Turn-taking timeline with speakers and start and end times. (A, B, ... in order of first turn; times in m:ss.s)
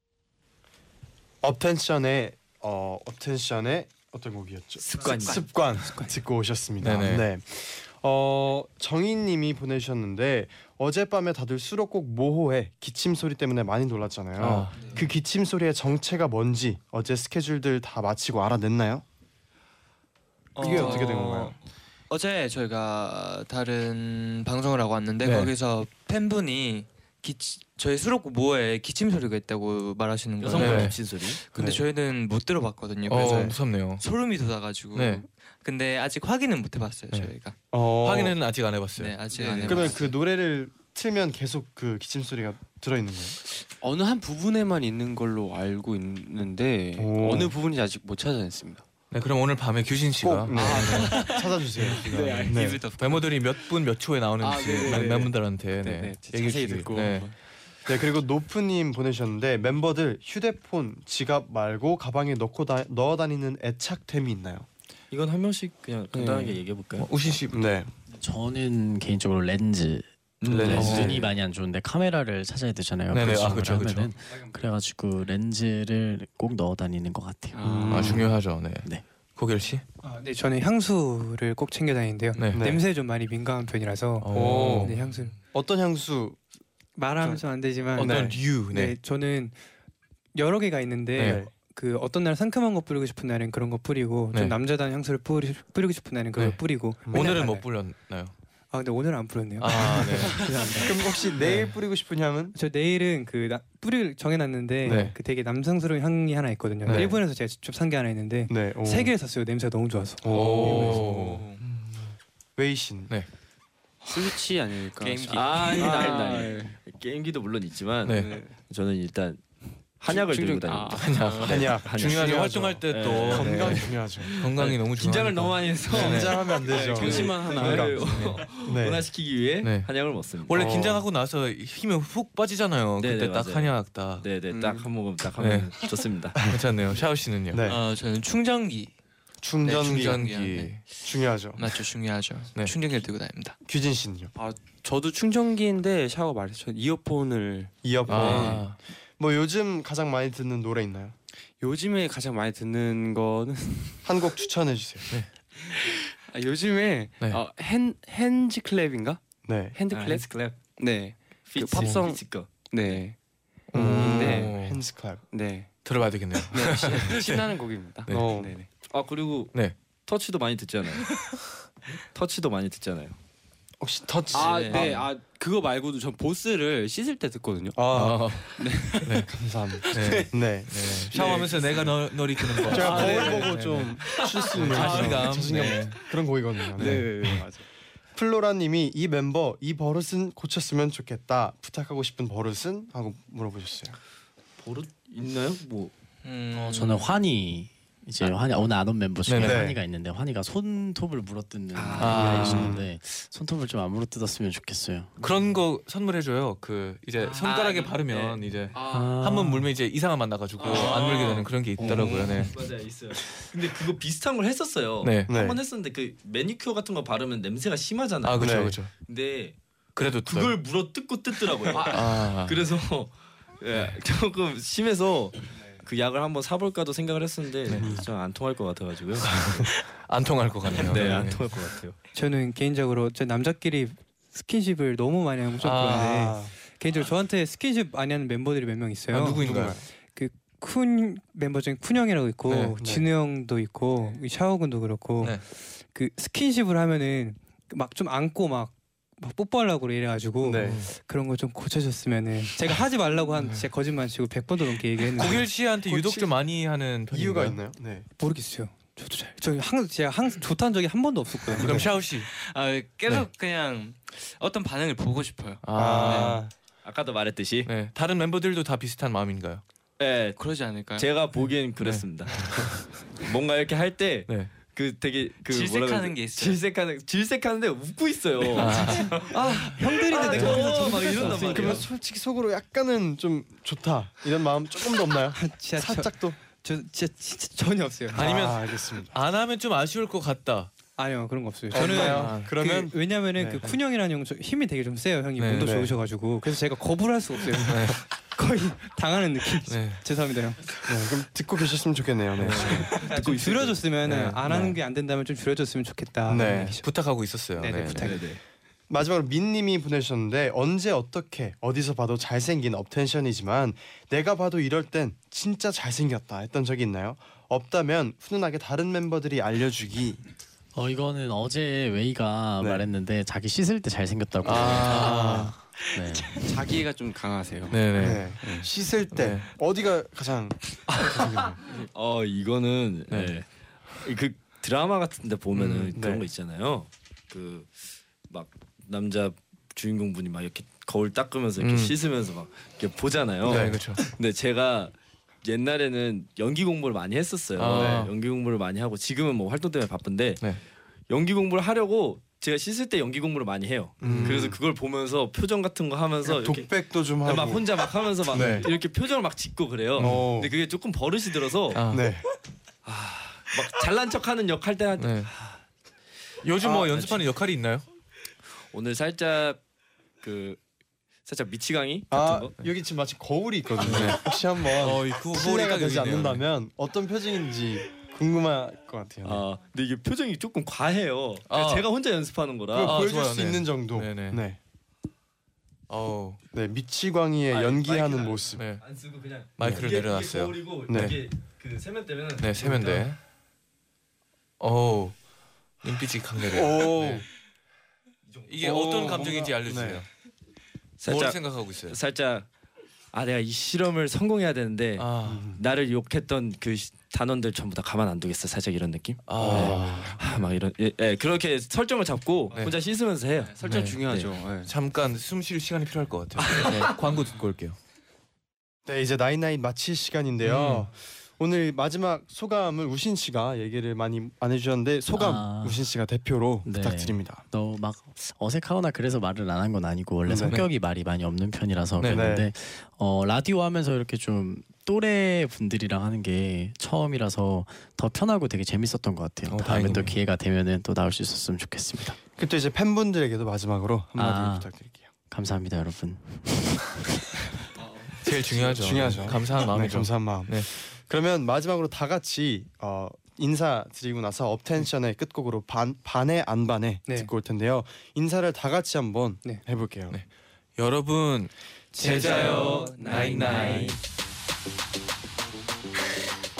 0:01.4-0:19.0 A
0:04.8-0:05.6 B
0:06.8-0:07.3 C
0:14.4-0:14.9 C
0:14.8-0:15.1 D
0:20.6-0:21.6 D
0:20.6-0:21.6 A
0:20.7-0:21.1 E
0:22.1-0:37.6 D
0:25.2-0:25.5 C
0:30.4-0:31.4 B
0:30.6-0:31.0 C
0:31.6-0:31.8 A
0:33.1-0:34.0 C
0:33.1-0:33.6 A
0:34.9-0:35.2 C
0:37.7-0:38.4 A
0:37.9-0:39.2 C
0:39.0-0:40.2 D
0:39.3-0:39.9 E
0:39.7-0:43.4 A
0:43.8-0:48.9 E
0:47.0-0:47.5 A
0:49.1-0:52.0 C
0:50.2-0:52.9 A
0:50.5-0:52.5 E
0:50.7-0:53.5 D
0:52.9-0:57.3 C
0:54.4-0:57.4 E
0:54.8-0:55.1 D
0:57.9-1:04.7 A
1:05.1-1:07.1 B
1:06.1-1:06.6 E
1:07.0-1:07.6 C
1:07.5-1:07.9 A
1:08.2-1:18.3 F
1:10.4-1:11.3 B
1:10.4-1:11.3 C
1:13.1-1:14.1 C
1:17.5-1:18.3 E
1:17.6-1:18.2 A
1:17.9-1:19.8 C
1:20.0-1:25.4 G
1:22.4-1:22.7 C
1:22.6-1:22.8 A
1:24.2-1:25.0 C
1:24.3-1:24.9 A
1:25.5-1:26.4 A
1:27.0-1:29.6 G
1:28.0-1:29.0 C
1:28.0-1:28.4 A
1:30.4-1:37.7 G
1:31.2-1:31.4 C
1:31.2-1:31.5 A
1:36.3-1:38.3 C
1:37.1-1:37.4 A
1:38.7-1:40.9 G
1:39.6-1:40.8 C
1:40.3-1:42.6 A
1:41.4-1:41.7 C
1:42.5-1:50.7 G
1:44.8-1:45.1 C
1:44.8-1:45.2 A
1:46.9-1:47.2 A
1:48.5-1:49.1 A
1:50.2-1:51.4 A
1:50.3-1:51.4 C
1:51.2-1:51.6 D
1:52.6-1:53.1 A
1:54.0-1:56.7 E
1:55.0-1:56.6 D
1:55.3-1:59.4 B
1:58.0-1:58.3 C
1:58.1-1:58.6 E
2:00.0-2:10.8 B
2:00.0-2:01.4 E
2:01.0-2:06.5 C
2:01.1-2:01.7 D
2:01.4-2:04.3 A
2:05.9-2:09.1 A
2:06.6-2:08.4 E
2:07.7-2:08.4 C
2:09.6-2:09.9 C
2:10.5-2:14.3 C
2:10.6-2:11.1 A
2:13.0-2:16.5 B
2:14.5-2:14.9 E
2:15.4-2:17.7 C
2:17.5-2:17.8 A
2:17.6-2:18.9 D
2:19.4-2:20.3 A
2:19.6-2:21.0 D
2:19.6-2:20.9 C
2:21.0-2:21.7 A
2:21.6-2:23.6 D
2:23.7-2:24.3 A
2:24.4-2:27.7 E
2:27.8-2:31.1 A
2:28.1-2:28.8 C
2:31.6-2:34.1 E
2:34.0-2:35.1 A
2:35.6-2:39.2 E
2:39.4-2:39.8 A
2:39.7-2:43.2 E
2:39.9-2:40.6 B
2:41.5-2:43.0 B
2:41.7-2:42.0 C
2:43.7-2:44.8 C
2:43.7-2:45.2 A
2:43.7-2:44.6 E
2:45.3-2:45.7 E
2:45.8-2:47.5 C
2:46.4-2:48.7 E
2:48.1-2:48.3 C
2:48.1-2:48.5 A
2:48.9-2:49.6 B
2:50.1-2:51.2 B
2:51.1-2:51.4 C
2:52.1-2:53.2 B
2:53.8-2:55.0 A
2:54.3-2:57.8 E
2:54.4-2:55.1 D
2:57.8-2:58.4 A
2:57.9-2:58.5 C
2:58.4-3:00.3 E
2:59.0-2:59.3 C
2:59.3-3:01.9 A
2:59.9-3:03.6 C
3:01.1-3:04.2 E
3:02.6-3:07.4 A
3:02.9-3:04.3 D
3:04.4-3:06.0 C
3:04.8-3:05.3 B
3:06.8-3:07.1 B
3:06.8-3:07.4 C
3:06.8-3:07.7 E
3:08.1-3:14.0 A
3:14.6-3:15.9 B
3:16.2-3:17.1 D
3:16.5-3:25.1 F
3:19.3-3:19.6 C
3:19.4-3:19.8 A
3:21.7-3:22.7 B
3:22.0-3:22.8 C
3:22.0-3:22.9 A
3:25.2-3:32.6 C
3:27.2-3:28.4 D
3:28.8-3:29.1 B
3:28.9-3:29.7 F
3:30.6-3:39.6 B
3:30.7-3:31.4 D
3:35.0-3:35.3 C
3:35.3-3:35.6 A
3:38.2-3:38.9 C
3:38.4-3:38.8 A
3:40.0-3:40.6 C
3:40.2-3:49.5 B
3:41.7-3:42.6 C
3:47.8-3:48.1 A
3:49.2-3:51.5 C
3:50.8-3:52.0 B
3:52.1-3:59.4 G
3:55.6-3:56.3 C
3:55.9-3:56.5 A
3:59.1-3:59.8 C
3:59.4-3:59.8 A
4:00.1-4:15.5 G
4:02.4-4:02.8 C
4:02.8-4:03.1 A
4:10.4-4:10.9 A
4:10.5-4:10.9 C
4:13.4-4:13.6 C
4:15.2-4:17.6 C
4:15.4-4:16.4 A
4:17.1-4:18.1 A
4:18.2-4:21.9 G
4:21.6-4:22.3 C
4:21.6-4:21.9 A
4:22.3-4:26.4 D
4:25.6-4:26.4 C
4:25.7-4:26.5 A
4:26.8-4:27.7 B
4:27.7-4:29.6 C
4:30.0-4:30.4 B
4:30.4-4:31.1 D
4:31.0-4:41.9 B
4:31.8-4:32.9 C
4:34.3-4:34.5 C
4:35.5-4:36.6 D
4:38.5-4:39.3 C
4:39.2-4:41.9 G
4:40.2-4:46.4 A
4:40.3-4:40.7 C
4:45.4-4:48.3 G
4:48.1-4:49.1 A
4:48.1-4:50.7 C
4:51.0-5:00.6 G
4:51.7-4:53.6 A
4:51.8-4:52.5 C
4:55.4-4:55.9 C
4:57.6-4:58.0 C
4:59.7-5:00.0 C
5:00.9-5:02.9 A
5:02.4-5:03.9 B
5:02.4-5:02.9 C
5:02.6-5:06.9 G
5:04.0-5:04.7 C
5:04.5-5:04.7 A
5:06.3-5:06.8 A
5:06.3-5:08.2 C
5:07.6-5:08.3 G
5:08.0-5:08.4 B
5:08.9-5:20.2 A
5:20.7-5:26.4 F
5:22.6-5:22.8 A
5:24.4-5:25.6 C
5:24.5-5:25.3 E
5:26.3-5:28.7 E
5:27.7-5:28.4 C
5:28.0-5:31.6 A
5:29.1-5:29.5 C
5:31.7-5:33.4 B
5:34.0-5:50.4 B
5:35.5-5:36.0 C
5:36.0-5:36.3 A
5:41.6-5:42.0 C
5:43.4-5:43.8 A
5:43.4-5:44.1 C
5:47.6-5:48.1 C
5:47.7-5:48.1 A
5:51.1-6:01.8 B
5:54.0-5:54.6 A
5:54.0-5:54.4 C
5:56.2-5:58.7 A
5:58.3-5:58.7 C
6:00.0-6:00.3 C
6:00.0-6:00.5 A
6:01.7-6:02.1 C
6:01.9-6:02.3 A
6:02.8-6:05.6 B
6:05.0-6:05.3 C
6:06.4-6:07.8 C
6:06.6-6:07.2 A
6:08.7-6:09.6 B
6:10.2-6:10.6 B
6:11.3-6:12.5 B
6:12.1-6:19.4 A
6:13.8-6:16.4 C
6:19.2-6:23.0 B
6:21.5-6:21.8 C
6:22.7-6:24.6 A
6:22.8-6:24.4 C
6:25.9-6:26.4 C
6:26.5-6:28.7 A
6:27.5-6:33.0 B
6:28.6-6:28.9 C
6:29.6-6:31.2 C
6:30.9-6:31.2 A
6:32.4-6:33.2 C
6:34.6-6:35.2 C
6:35.8-6:37.2 C
6:36.4-6:37.3 A
6:38.5-6:40.1 C
6:38.6-6:40.0 A
6:41.0-6:42.4 B
6:41.0-6:42.0 C
6:43.1-6:54.3 B
6:45.0-6:45.5 C
6:45.2-6:45.6 A
6:49.3-6:50.1 C
6:49.4-6:50.2 A
6:53.5-6:53.8 D
6:53.6-6:54.7 E
6:53.7-6:54.0 C
6:54.6-6:57.8 C
6:58.9-7:07.4 A
7:00.4-7:00.9 C
7:05.1-7:05.9 F
7:06.6-7:22.2 F
7:10.3-7:10.6 A
7:10.4-7:10.7 C
7:12.0-7:12.3 C
7:12.1-7:12.5 A
7:19.5-7:20.1 C
7:22.4-7:25.1 A
7:24.2-7:24.7 F
7:25.3-7:27.0 F
7:28.2-7:30.7 C
7:28.3-7:40.2 A
7:40.8-7:44.0 C
7:41.9-7:44.0 G
7:42.0-7:43.8 D